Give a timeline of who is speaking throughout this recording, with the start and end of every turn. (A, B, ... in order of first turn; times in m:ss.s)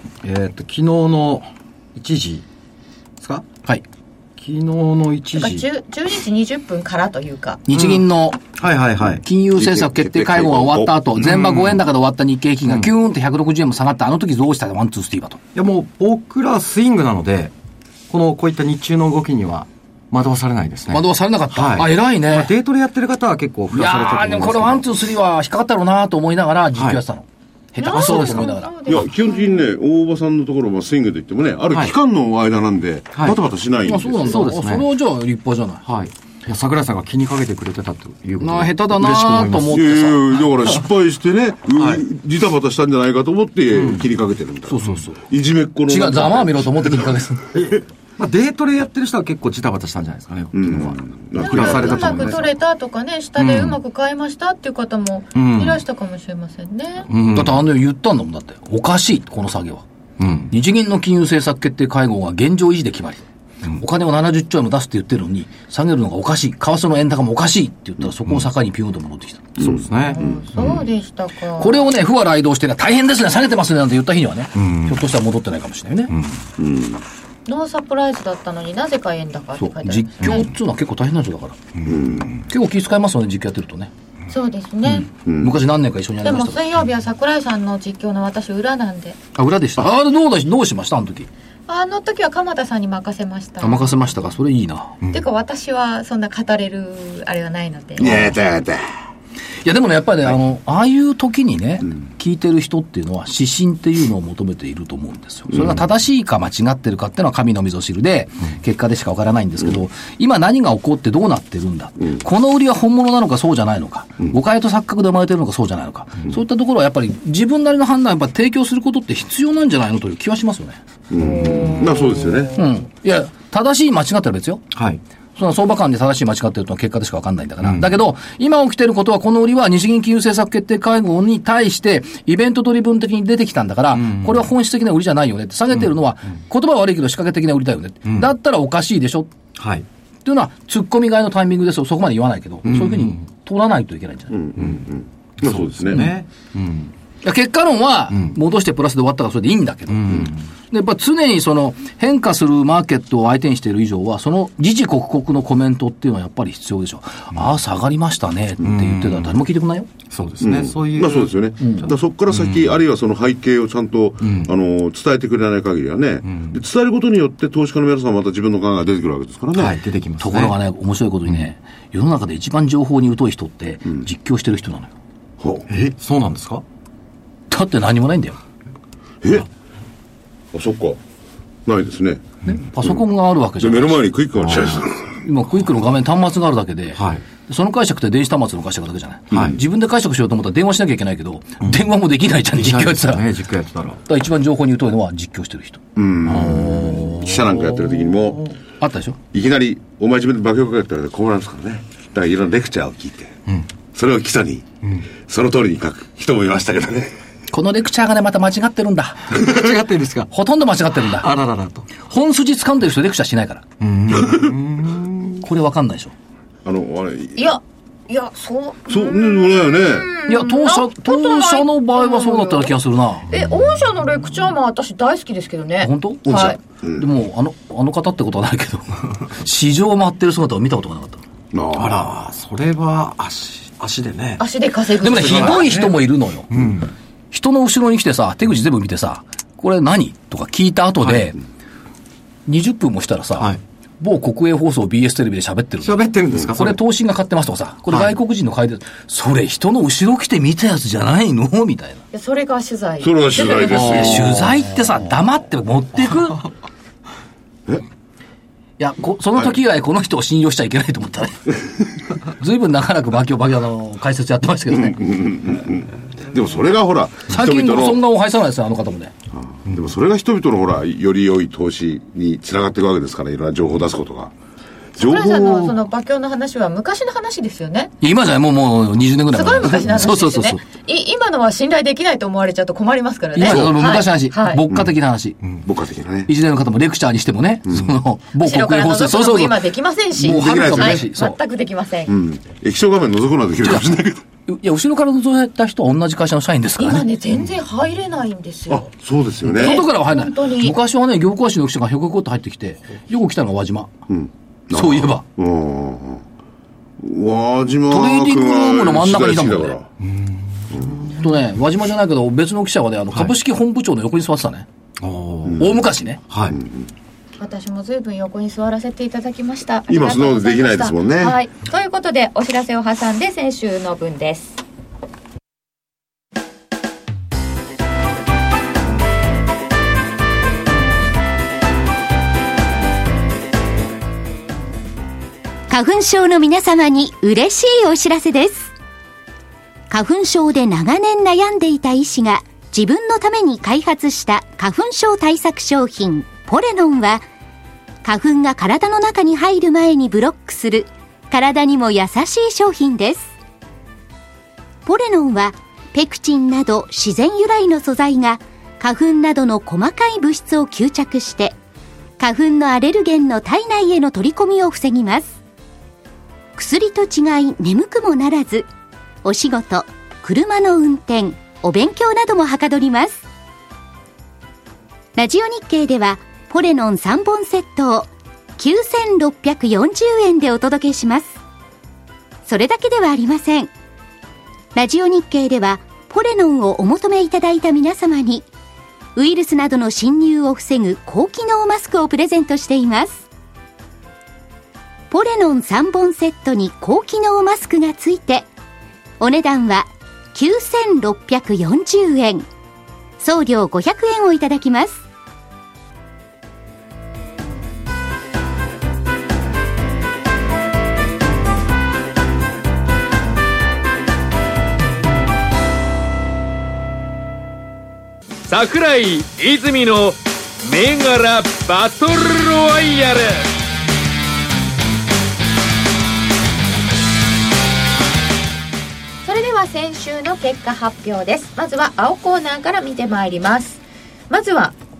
0:00.2-0:02.4 A
0:03.2-0:03.5 A
0:04.4-0:05.7 A
0:05.3-0:07.6 B
0:07.7-0:08.4 C
0:07.7-0:09.2 A
0:09.2-0:15.4 C
0:09.6-0:11.4 D
0:11.2-0:11.6 A
0:12.7-0:12.9 A
0:15.6-0:17.5 A
0:18.1-0:24.9 A
0:20.9-0:22.5 C
0:23.7-0:28.9 C
0:27.8-0:29.7 B
0:28.0-0:28.4 A
0:28.9-0:34.4 D
0:31.7-0:32.0 A
0:33.8-0:35.8 C
0:34.3-0:34.9 A
0:35.9-0:40.8 A
0:38.4-0:40.2 C
0:39.7-0:47.2 D
0:41.8-0:42.0 A
0:43.7-0:44.1 A
0:44.7-0:45.2 C
0:45.9-0:47.5 C
0:47.5-0:52.5 A
0:50.5-0:52.4 D
0:51.4-0:57.1 B
0:53.4-0:53.8 A
0:55.4-0:55.8 A
0:57.1-0:57.6 A
0:57.3-0:59.8 C
1:00.2-1:00.5 A
1:00.5-1:09.6 C
1:09.6-1:10.7 D
1:09.6-1:10.8 A
1:10.1-1:11.9 B
1:11.6-1:16.2 C
1:14.6-1:15.0 A
1:16.6-1:17.0 D
1:17.5-1:20.5 B
1:19.6-1:21.6 C
1:21.9-1:22.4 D
1:22.5-1:23.9 C
1:24.3-1:25.1 B
1:25.2-1:25.6 D
1:25.4-1:26.6 C
1:26.2-1:29.2 B
1:29.4-1:31.3 C
1:31.7-1:34.1 B
1:33.6-1:35.0 C
1:35.1-1:38.2 B
1:38.0-1:38.8 D
1:39.6-2:00.8 C
1:45.5-1:45.8 D
2:01.1-2:02.5 D
2:01.2-2:02.6 B
2:02.6-2:04.7 C
2:04.7-2:05.0 A
2:05.4-2:19.3 C
2:07.6-2:07.9 A
2:13.9-2:14.4 A
2:18.0-2:18.3 A
2:19.6-2:19.8 A
2:20.2-2:24.3 C
2:22.6-2:23.2 A
2:24.3-2:26.1 D
2:25.4-2:26.9 A
2:27.2-2:39.9 C
2:29.9-2:30.4 A
2:38.6-2:39.4 A
2:40.1-2:41.6 A
2:40.4-2:49.8 D
2:41.6-2:41.9 C
2:42.3-2:42.8 A
2:44.2-2:44.5 A
2:46.3-2:46.6 A
2:49.5-2:50.6 A
2:50.2-2:54.9 C
2:55.4-2:55.7 D
2:55.7-2:56.6 A
2:57.5-2:58.4 C
3:00.5-3:01.0 D
3:01.7-3:02.3 D
3:02.5-3:04.1 C
3:03.6-3:05.2 D
3:04.4-3:04.8 A
3:05.2-3:13.3 C
3:07.0-3:07.2 A
3:09.3-3:09.6 A
3:12.6-3:14.0 A
3:14.1-3:15.8 C
3:16.0-3:18.5 D
3:16.2-3:18.4 A
3:16.4-3:17.0 C
3:18.8-3:19.2 C
3:19.3-3:23.3 D
3:23.9-3:24.7 D
3:25.2-3:27.1 D
3:27.5-3:29.6 C
3:29.3-3:30.3 A
3:30.3-3:31.3 C
3:31.0-3:31.9 A
3:32.0-3:33.6 C
3:33.8-3:35.4 A
3:35.4-3:36.1 C
3:36.6-3:37.5 D
3:37.4-3:42.7 B
3:38.9-3:40.1 D
3:40.3-3:43.3 C
3:43.3-3:46.6 B
3:45.8-3:51.2 C
3:46.3-3:47.1 D
3:51.5-3:52.1 D
3:51.7-3:54.4 A
3:54.4-3:55.7 B
3:55.0-3:56.5 C
3:55.1-3:55.9 A
3:56.5-3:56.9 A
3:57.3-4:01.4 C
4:01.0-4:01.3 A
4:02.5-4:12.0 C
4:05.8-4:06.8 A
4:12.1-4:14.2 B
4:13.0-4:14.3 D
4:13.7-4:14.6 A
4:13.8-4:16.4 C
4:18.8-4:21.6 C
4:22.3-4:25.2 C
4:24.9-4:28.0 D
4:27.3-4:29.1 C
4:29.5-4:34.3 D
4:35.0-4:35.8 D
4:35.0-4:37.9 B
4:38.0-4:40.6 C
4:39.3-4:44.6 B
4:43.3-4:45.4 C
4:43.4-4:43.8 D
4:45.6-4:46.3 D
4:46.3-4:49.6 C
4:47.7-4:47.9 D
4:48.4-4:52.2 B
4:50.2-4:51.4 C
4:50.2-4:51.0 D
4:52.1-4:54.2 D
4:54.5-4:57.0 C
4:56.8-4:58.9 B
4:58.7-4:59.8 D
4:59.4-5:04.0 C
4:59.6-5:00.8 B
5:04.1-5:06.2 D
5:04.7-5:05.2 C
5:07.0-5:09.9 D
5:07.9-5:09.8 C
5:10.7-5:11.0 D
5:11.2-5:14.7 C
5:15.0-5:15.7 A
5:15.6-5:16.2 C
5:16.3-5:16.6 A
5:16.5-5:16.8 D
5:17.4-5:24.6 B
5:19.9-5:21.4 D
5:35.7-5:38.7 E
5:39.9-5:47.2 E
5:48.0-5:53.3 E
5:54.9-6:01.6 E
6:02.2-6:05.4 E
6:06.6-6:08.7 E
6:09.2-6:13.2 E
6:15.2-6:21.4 E
6:22.5-6:23.7 E
6:24.8-6:28.5 E
6:29.2-6:33.2 E
6:35.1-6:38.5 E
6:39.2-6:42.5 E
6:43.2-6:45.0 E
6:58.5-7:03.5 F
7:09.2-7:14.8 B